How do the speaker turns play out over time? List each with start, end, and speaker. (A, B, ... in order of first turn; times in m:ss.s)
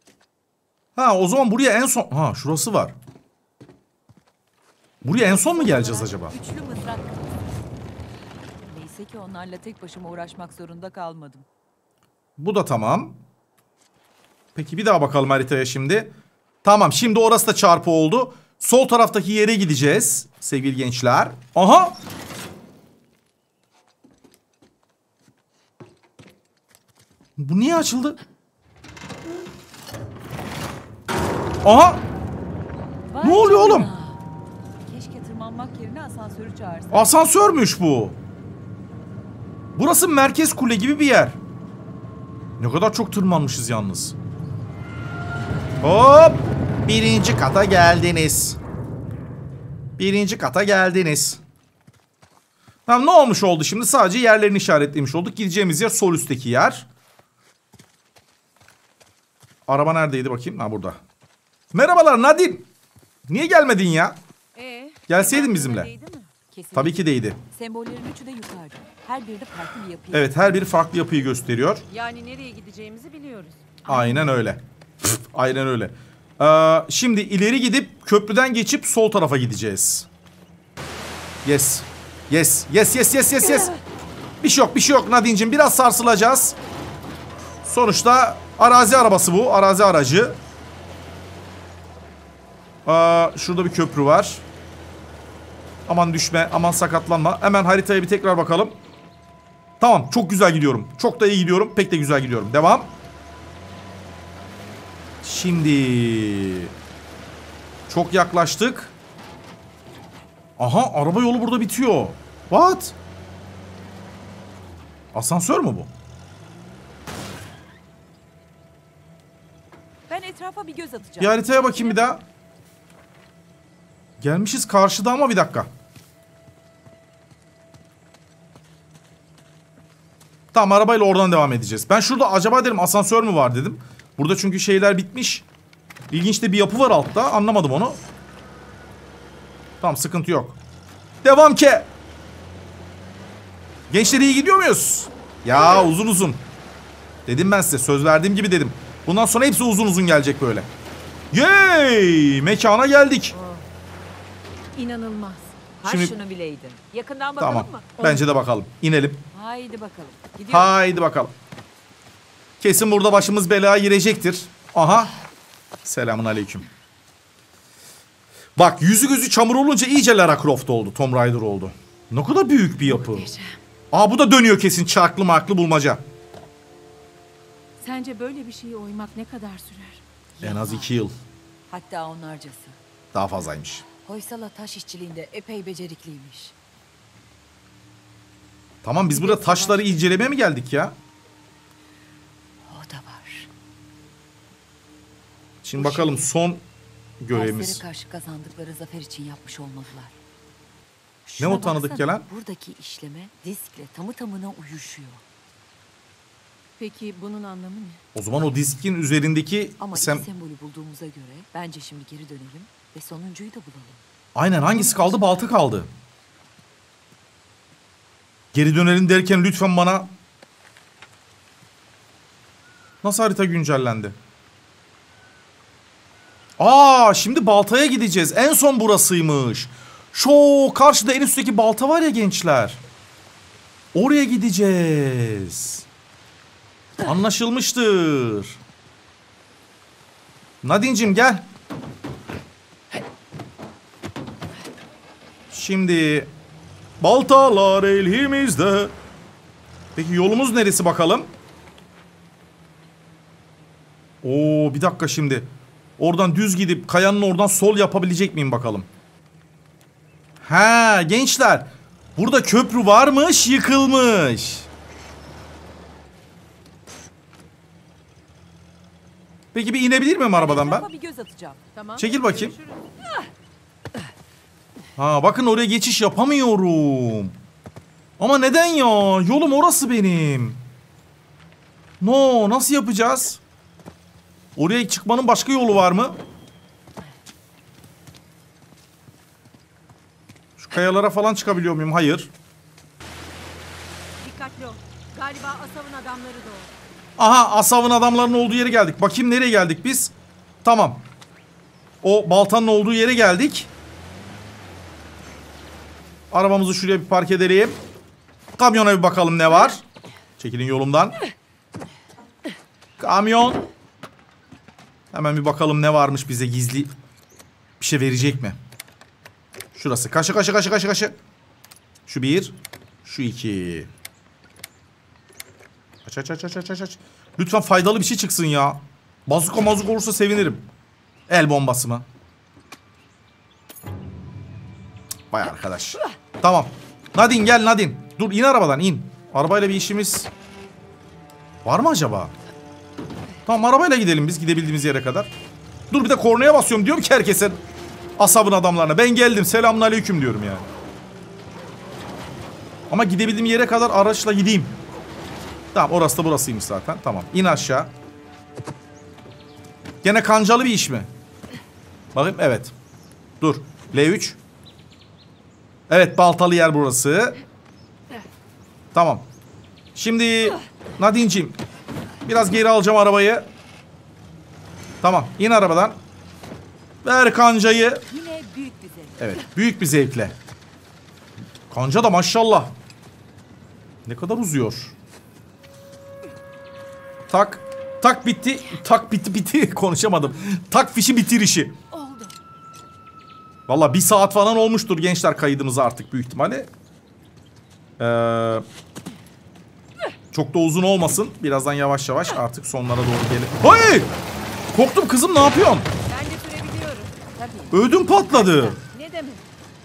0:01.0-0:02.9 A
0:05.0-0:06.3 A
0:05.2-0:07.6 B
0:08.6-0:11.5 B
0:12.4-0:13.2 A
0:14.6-0:16.1 A
0:16.6-0:22.0 A
0:27.4-0:28.2 A
0:31.6-0:32.0 A
0:33.1-0:34.3 B
0:33.2-0:33.9 A
0:34.8-0:37.1 B
0:36.9-0:38.2 A
0:39.8-0:41.4 A
0:42.6-0:44.2 A
0:45.8-0:48.6 A
0:50.0-0:51.4 A
0:52.9-0:56.9 A
0:59.7-1:01.0 A
1:01.7-1:02.7 A
1:03.3-1:04.2 A
1:04.6-1:06.3 C
1:05.1-1:05.9 A
1:06.5-1:10.7 B
1:06.8-1:07.4 A
1:10.1-1:11.8 A
1:11.9-1:13.8 C
1:13.9-1:20.1 A
1:13.9-1:14.3 B
1:21.4-1:23.7 A
1:24.4-1:26.6 A
1:27.6-1:30.4 A
1:32.9-1:34.4 A
1:35.9-1:38.8 A
1:39.8-1:42.9 A
1:45.2-1:46.7 A
1:47.9-1:48.9 A
1:50.6-1:53.0 A
1:55.1-1:55.9 A
2:00.1-2:02.2 B
2:01.2-2:02.2 A
2:04.2-2:05.7 A
2:10.5-2:15.5 A
2:16.1-2:18.0 A
2:19.8-2:20.6 A
2:21.2-2:21.9 A
2:23.9-2:26.4 A
2:27.3-2:30.7 A
2:31.3-2:33.4 A
2:34.8-2:35.6 C
2:35.8-2:37.9 B
2:35.8-2:36.2 A
2:37.4-2:39.2 A
2:38.0-2:38.2 C
2:39.3-2:40.8 B
2:40.5-2:41.3 A
2:42.6-2:45.1 A
2:45.8-2:46.7 A
2:48.6-2:53.3 A
2:52.8-2:53.6 B
2:53.9-2:56.0 A
2:57.8-3:00.0 C
3:00.4-3:01.0 B
3:00.4-3:01.1 A
3:01.7-3:02.8 B
3:03.1-3:03.9 A
3:04.0-3:06.6 B
3:08.8-3:11.0 A
3:09.1-3:10.2 B
3:12.6-3:13.5 B
3:15.6-3:16.6 A
3:15.8-3:16.3 B
3:17.2-3:17.8 A
3:17.3-3:20.2 B
3:21.2-3:25.2 B
3:21.4-3:22.3 A
3:26.8-3:28.0 C
3:28.2-3:30.3 A
3:29.8-3:34.0 B
3:34.4-3:35.9 A
3:34.7-3:35.4 B
3:38.5-3:40.1 A
3:43.0-3:44.2 A
3:46.6-3:52.8 A
3:53.9-3:55.8 A
3:57.0-3:58.6 A
4:00.6-4:01.5 A
4:05.5-4:06.3 A
4:07.0-4:08.9 A
4:10.0-4:11.3 A
4:14.2-4:18.9 A
4:20.4-4:24.7 A
4:29.5-4:30.9 A
4:30.3-4:31.6 B
4:31.8-4:32.9 C
4:32.0-4:32.6 A
4:35.0-4:37.4 A
4:38.2-4:40.6 A
4:42.0-4:43.4 A
4:44.6-4:46.2 A
4:50.6-4:52.3 A
4:54.2-4:56.7 C
4:57.2-5:00.1 A
5:00.6-5:01.0 A
5:02.0-5:03.7 A
5:06.3-5:07.8 A
5:08.6-5:09.8 A
5:10.4-5:11.2 A
5:13.0-5:13.7 A
5:15.1-5:16.9 A
5:17.8-5:18.6 A
5:19.8-5:21.2 A
5:22.1-5:23.9 A
5:26.1-5:30.7 A
5:31.3-5:32.1 A
5:35.3-5:40.3 A
5:41.6-5:42.3 A
5:43.5-5:45.3 A
5:45.9-5:47.6 A
5:48.2-5:50.7 A
5:52.9-5:54.8 A
5:55.7-5:57.9 A
6:00.0-6:01.1 A
6:02.2-6:02.7 A
6:03.4-6:04.4 A
6:05.9-6:07.4 A
6:08.9-6:09.3 A
6:10.0-6:11.6 A
6:12.2-6:13.5 A
6:15.0-6:16.0 A
6:17.0-6:18.0 A
6:18.1-6:19.4 B
6:19.2-6:20.4 A
6:21.7-6:22.7 A
6:24.1-6:25.0 A
6:27.3-6:31.8 A
6:32.0-6:32.3 B
6:33.7-6:36.7 A
6:38.0-6:38.6 A
6:40.3-6:44.1 A
6:44.7-6:45.9 A
6:46.0-6:47.6 C
6:47.4-6:47.8 B
6:47.7-6:48.8 A
6:48.1-6:49.4 C